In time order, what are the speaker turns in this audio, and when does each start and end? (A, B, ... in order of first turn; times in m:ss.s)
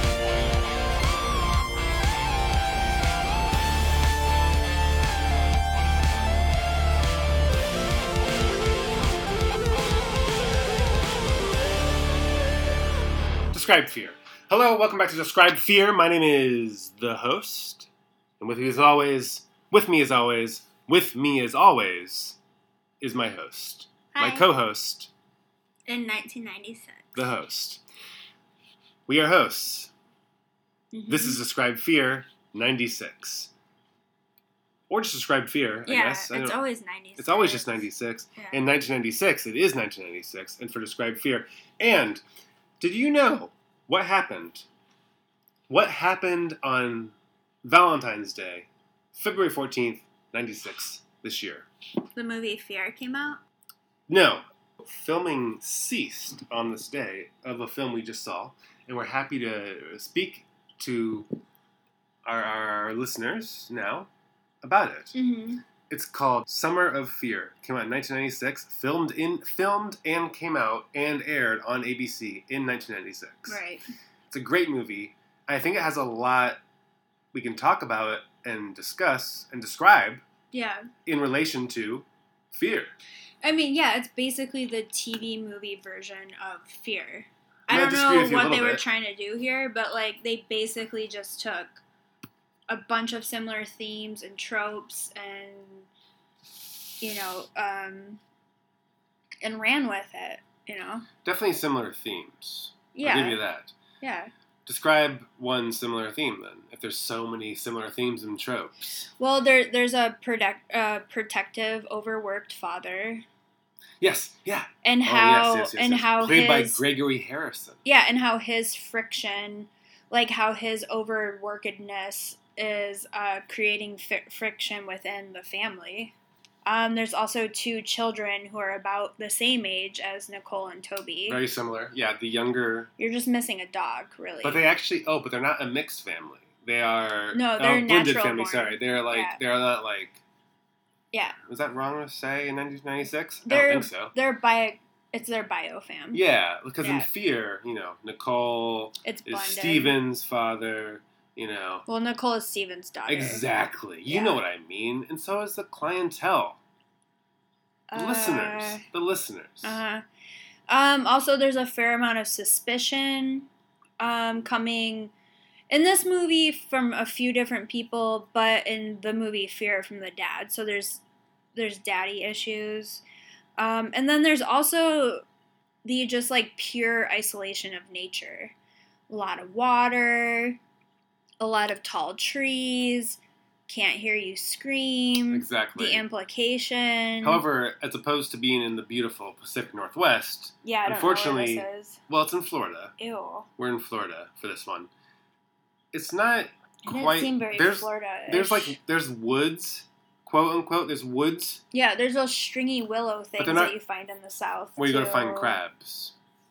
0:13.5-0:17.9 A
0:18.4-0:22.4 A
0:23.0-0:25.1 A
0:24.1-0:24.5 B
0:25.9-0:27.2 B
0:27.2-0:27.8 A
0:29.1-0:29.9 A
0:30.9-0:31.4 B
0:31.1-0:33.5 A
0:34.9-0:36.6 A
0:35.8-0:38.6 B
0:37.2-0:42.2 A
0:42.8-0:44.6 A
0:45.7-0:51.7 A
0:52.1-0:53.4 B
0:54.1-1:01.3 A
1:02.2-1:04.1 A
1:04.6-1:05.1 A
1:05.1-1:05.6 B
1:05.9-1:13.6 A
1:13.5-1:13.8 B
1:14.3-1:16.6 A
1:17.3-1:20.2 A
1:20.5-1:20.9 B
1:21.0-1:22.9 A
1:23.4-1:31.8 B
1:27.7-1:28.8 A
1:32.7-1:35.9 B
1:37.0-1:38.2 B
1:39.4-1:41.0 B
1:41.2-1:43.7 A
1:42.9-1:43.4 B
1:44.0-1:44.3 B
1:44.6-1:48.7 A
1:49.2-1:53.2 B
1:54.0-1:57.8 A
1:54.8-1:56.8 B
1:57.8-2:06.1 B
2:06.6-2:11.4 B
2:11.3-2:12.9 A
2:13.0-2:14.6 B
2:14.4-2:20.2 A
2:17.3-2:19.4 B
2:21.1-2:21.4 B
2:21.4-2:24.1 A
2:23.4-2:26.2 B
2:26.1-2:31.8 A
2:26.8-2:27.1 B
2:29.0-2:30.0 B
2:31.9-2:33.4 B
2:33.1-2:36.6 A
2:34.1-2:34.4 B
2:37.9-2:38.8 B
2:37.9-2:39.8 A
2:39.6-2:40.0 B
2:40.7-2:43.5 B
2:44.0-2:45.1 B
2:45.7-2:51.0 B
2:51.5-2:53.0 B
2:53.6-2:55.2 B
2:55.8-2:58.5 B
2:59.1-3:00.6 B
3:01.4-3:07.4 B
3:05.3-3:06.0 A
3:07.2-3:12.9 A
3:10.6-3:12.0 B
3:13.0-3:13.5 B
3:13.6-3:14.9 A
3:15.9-3:21.6 A
3:16.8-3:18.8 B
3:21.7-3:25.6 B
3:23.4-3:23.7 A
3:24.8-3:26.1 A